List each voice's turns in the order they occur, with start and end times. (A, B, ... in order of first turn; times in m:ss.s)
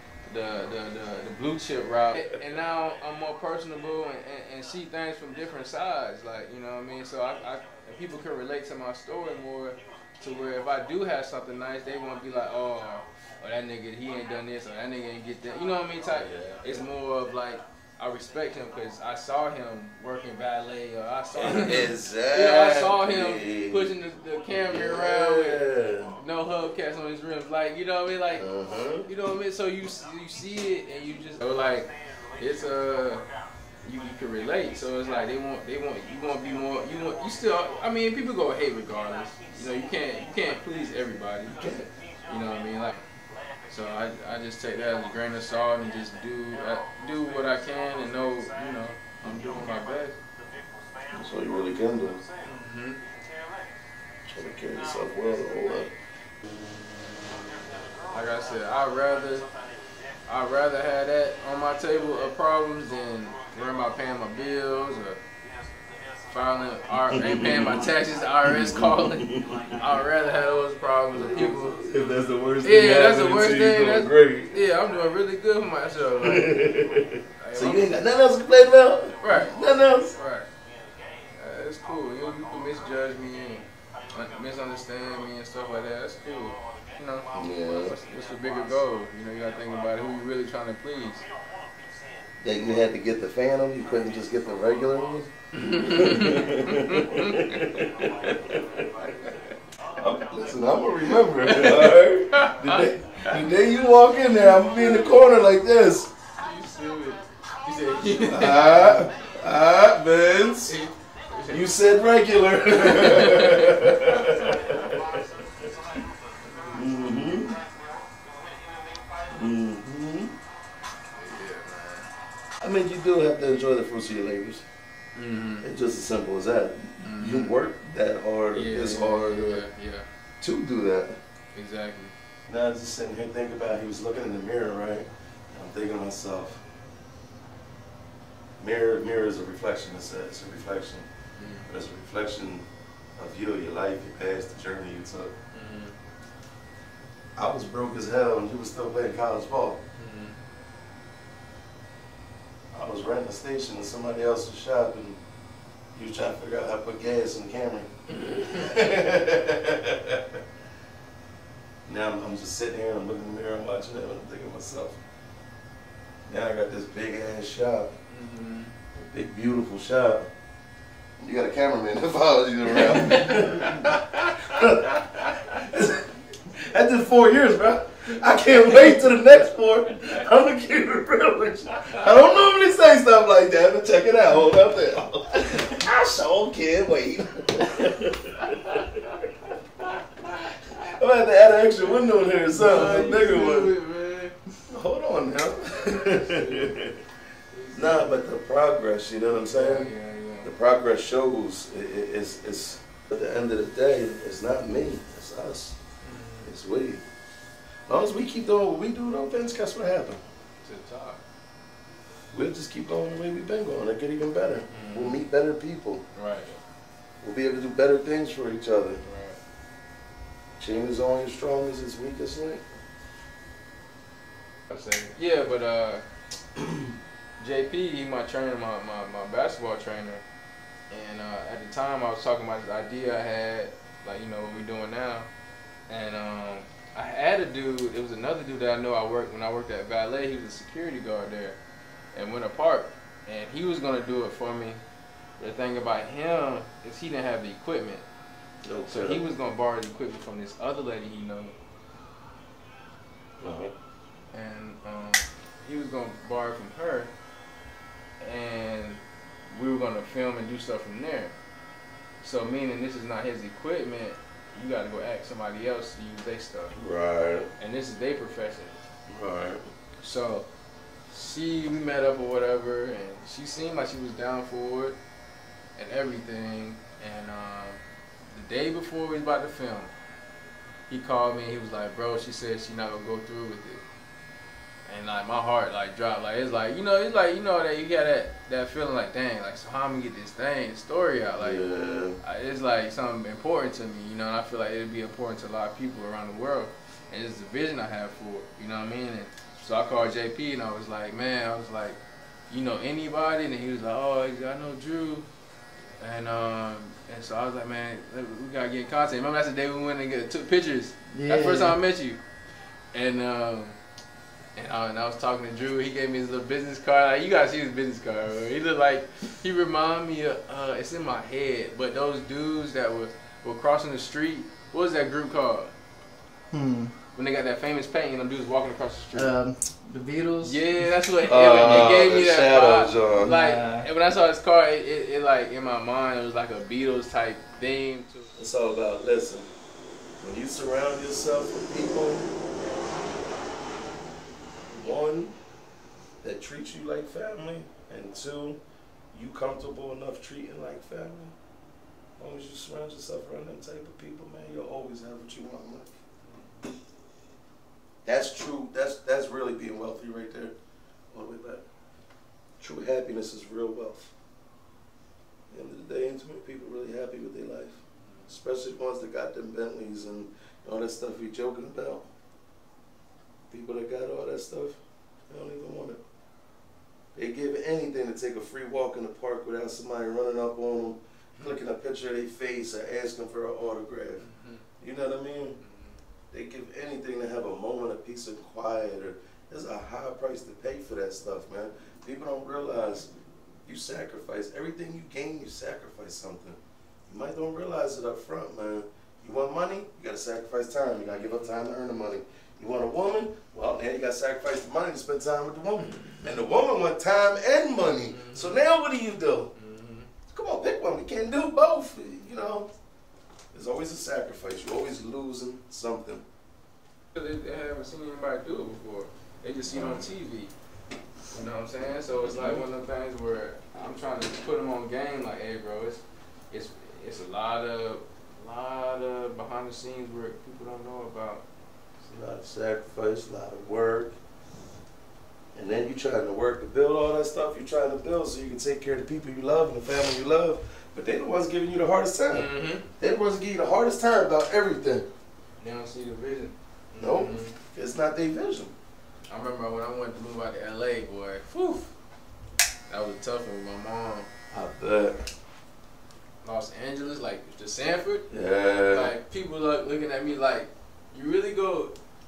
0:00.2-0:28.5 A
0:16.0-0:16.8 B
0:21.4-0:23.9 B
0:24.5-0:26.2 B
0:28.4-0:29.1 B
0:29.0-0:33.2 A
0:33.8-0:43.0 A
0:41.5-0:41.9 B
0:43.7-0:50.2 A
0:49.2-0:49.7 B
0:51.1-0:52.2 B
0:52.4-0:53.0 A
0:54.3-0:55.9 B
0:58.0-0:59.5 A
1:00.3-1:05.2 A
1:06.3-1:11.8 A
1:06.9-1:07.9 B
1:08.4-1:09.7 B
1:11.1-1:14.6 B
1:12.6-1:16.7 A
1:16.2-1:20.2 B
1:17.4-1:18.1 A
1:19.2-1:20.5 A
1:21.3-1:31.2 A
1:27.3-1:28.0 B
1:32.4-1:39.0 B
1:35.5-1:37.7 A
1:39.9-1:46.1 B
1:41.4-1:43.5 A
1:44.4-1:45.1 A
1:46.4-1:49.1 A
1:48.2-1:50.8 B
1:50.7-1:51.7 A
1:51.5-1:55.6 B
1:52.7-1:54.8 A
1:56.5-1:56.8 A
1:56.7-1:57.6 B
1:59.3-2:00.4 B
2:01.2-2:02.1 A
2:02.6-2:04.6 B
2:05.2-2:05.7 A
2:05.6-2:09.6 B
2:07.0-2:07.6 A
2:08.5-2:10.1 A
2:10.4-2:11.2 B
2:11.5-2:12.1 A
2:12.5-2:16.6 B
2:18.6-2:21.1 B
2:21.4-2:21.7 A
2:21.7-2:25.3 B
2:25.5-2:25.9 A
2:27.4-2:29.8 B
2:30.0-2:30.4 A
2:32.7-2:35.2 B
2:35.9-2:40.4 B
2:38.1-2:38.7 A
2:41.9-2:45.0 B
2:46.3-2:48.0 B
2:48.1-2:48.7 A
2:48.9-2:50.3 B
2:51.2-3:09.0 B
2:52.7-2:53.7 A
3:10.7-3:13.8 B
3:12.5-3:14.4 A
3:14.7-3:17.0 B
3:16.2-3:16.8 A
3:17.5-3:18.2 A
3:17.7-3:19.9 B
3:19.5-3:20.5 A
3:20.4-3:25.8 B
3:26.0-3:26.5 A
3:26.4-3:27.0 B
3:27.9-3:30.2 B
3:30.6-3:31.2 A
3:32.3-3:36.0 B
3:34.7-3:35.2 A
3:36.2-3:36.6 A
3:37.2-3:39.0 B
3:39.0-3:39.4 A
3:40.6-3:42.6 B
3:44.7-3:46.0 A
3:47.4-3:50.2 A
3:50.9-3:55.3 A
3:55.9-4:01.6 A
4:02.1-4:04.8 A
4:05.4-4:08.0 A
4:08.6-4:09.3 B
4:08.9-4:11.5 A
4:13.4-4:13.7 B
4:14.3-4:17.1 A
4:18.2-4:21.3 A
4:22.2-4:26.8 A
4:26.8-4:27.5 B
4:27.6-4:28.8 A
4:29.1-4:29.6 B
4:30.0-4:30.5 A
4:31.1-4:35.0 A
4:35.8-4:37.8 A
4:38.3-4:39.9 A
4:40.9-4:43.8 A
4:44.9-4:51.6 A
4:51.4-4:52.2 B
4:52.2-5:02.0 A
5:02.5-5:05.3 A
5:06.0-5:12.2 A
5:11.1-5:11.8 C
5:12.9-5:13.8 A
5:14.6-5:25.7 A
5:26.5-5:26.9 C
5:27.2-5:29.3 A
5:29.1-5:30.9 C
5:30.4-5:38.3 A
5:31.2-5:33.3 B
5:33.1-5:33.9 C
5:38.4-5:39.5 B
5:40.2-5:42.3 B
5:44.7-5:45.4 B
5:46.2-5:48.6 B
5:49.1-5:51.3 B
5:52.2-5:56.0 B
5:58.0-6:00.6 B
6:01.1-6:01.6 B
6:02.6-6:04.1 B
6:05.5-6:12.1 B
6:08.0-6:08.3 A
6:13.5-6:16.0 B
6:17.2-6:24.2 B
6:24.2-6:24.6 A
6:24.8-6:25.6 B
6:25.6-6:26.0 A
6:26.3-6:33.1 B
6:33.6-6:49.5 B
6:41.1-6:41.5 A
6:45.8-6:46.5 A
6:48.1-6:48.6 A
6:49.6-6:50.1 A
6:50.3-6:52.7 B
6:53.5-6:56.2 B
6:57.1-7:00.5 A
6:59.7-7:00.1 B
7:01.3-7:11.4 A
7:02.3-7:02.6 B
7:12.0-7:14.2 B
7:15.6-7:25.1 B
7:22.3-7:22.9 A
7:25.6-7:27.5 A
7:27.0-7:28.8 B
7:29.3-7:31.9 A
7:32.9-7:34.3 A
7:34.5-7:35.2 B
7:36.4-7:38.3 A
7:38.3-7:39.1 B
7:38.9-7:41.9 A